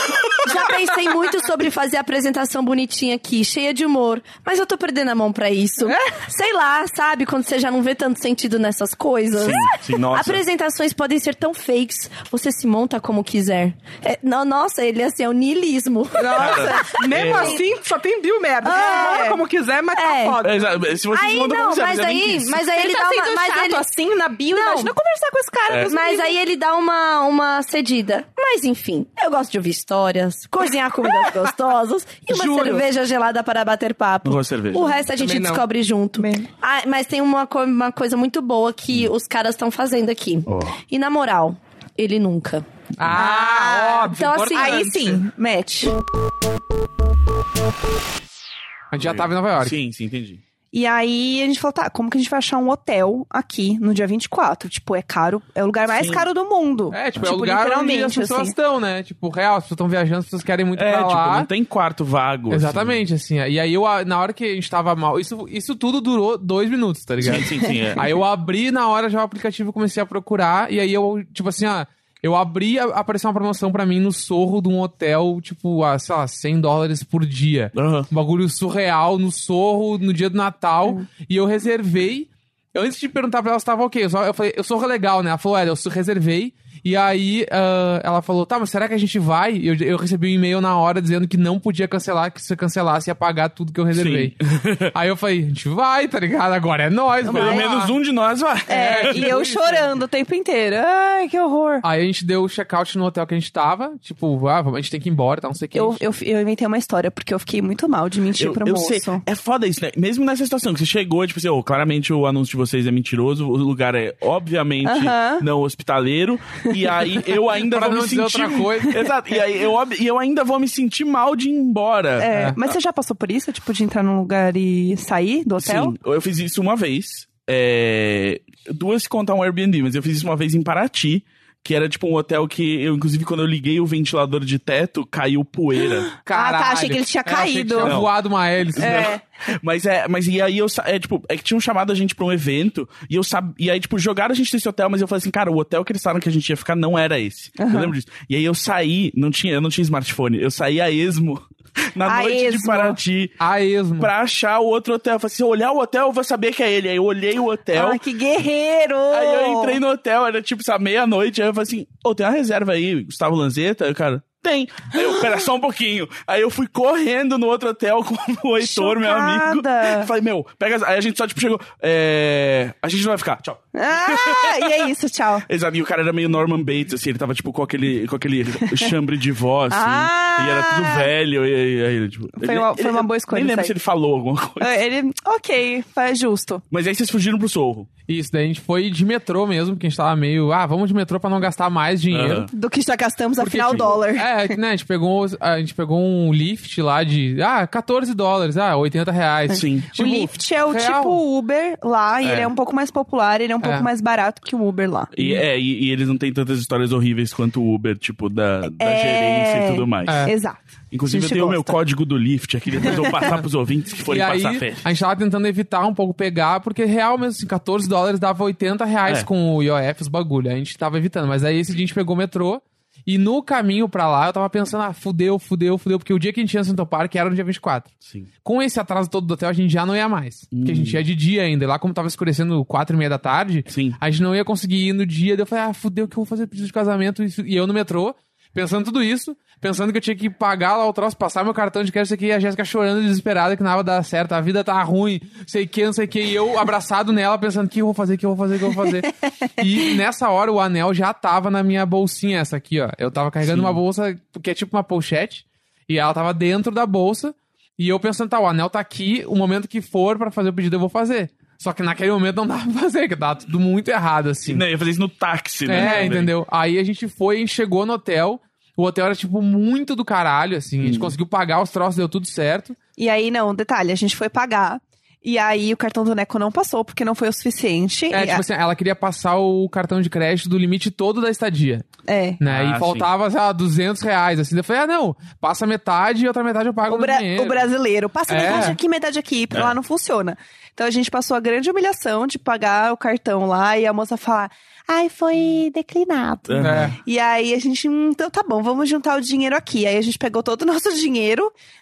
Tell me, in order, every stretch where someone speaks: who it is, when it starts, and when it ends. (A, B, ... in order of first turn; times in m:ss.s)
0:00.4-0:17.0 A
0:09.4-0:10.4 B
0:16.2-0:16.9 C
0:16.4-0:17.6 B
0:16.9-0:20.7 D
0:18.6-0:19.4 C
0:18.7-0:19.2 A
0:20.0-0:20.4 A
0:20.4-0:22.6 B
0:21.1-0:23.9 A
0:22.6-0:26.3 C
0:24.5-0:24.9 A
0:25.7-0:25.9 B
0:25.9-0:42.6 A
0:32.3-0:32.8 D
0:34.2-0:35.0 B
0:35.1-0:35.6 D
0:36.2-0:36.4 C
0:43.0-0:45.2 D
0:43.1-0:45.9 C
0:44.1-0:44.9 A
0:48.9-0:49.8 E
0:49.0-0:50.4 B
0:50.7-0:58.6 C
0:55.9-0:56.3 B
0:56.9-1:01.5 E
1:00.8-1:03.0 B
1:02.5-1:34.4 E
1:07.2-1:08.1 B
1:17.7-1:18.1 B
1:33.9-1:34.9 B
1:34.9-1:37.9 E
1:37.2-1:37.7 C
1:37.3-1:39.3 B
1:38.7-1:41.8 C
1:38.7-1:39.9 E
1:41.8-1:46.0 E
1:45.7-1:49.2 C
1:48.4-2:02.3 B
1:54.8-1:55.4 C
1:57.6-1:59.0 E
2:02.2-2:05.9 C
2:02.3-2:02.6 E
2:05.6-2:16.1 B
2:16.2-2:19.1 E
2:16.3-2:18.0 C
2:17.8-2:18.1 B
2:18.7-2:33.4 B
2:18.8-2:19.2 C
2:27.6-2:27.9 C
2:32.0-2:33.0 C
2:33.4-2:34.1 E
2:34.0-2:38.0 B
2:37.7-2:39.8 C
2:39.1-2:54.9 B
2:48.6-2:50.1 C
2:53.7-2:55.4 C
2:55.5-3:04.8 B
2:59.7-3:01.1 C
3:02.4-3:03.7 C
3:04.6-3:06.6 C
3:06.7-3:07.9 B
3:08.1-3:12.5 E
3:12.1-3:12.5 B
3:12.5-3:14.5 C
3:13.4-3:21.2 E
3:19.5-3:25.1 C
3:19.5-3:19.9 B
3:22.2-3:22.5 E
3:23.6-3:23.9 E
3:25.1-3:30.3 B
3:28.8-3:31.8 C
3:30.1-3:30.3 E
3:30.9-3:34.9 B
3:32.8-3:33.1 C
3:34.1-3:47.9 E
3:48.0-3:48.3 B
3:48.4-4:24.6 E
3:50.5-3:51.0 B
3:53.7-3:54.0 B
4:13.4-4:13.8 B
4:24.4-4:26.3 B
4:25.6-4:32.8 E
4:30.8-4:31.1 B
4:33.0-4:38.4 C
4:38.1-4:41.8 E
4:42.1-4:42.4 C
4:42.4-4:47.7 E
4:42.5-4:43.1 B
4:46.9-5:01.5 C
4:48.3-4:48.8 E
4:56.5-4:57.0 B
4:56.6-4:57.0 E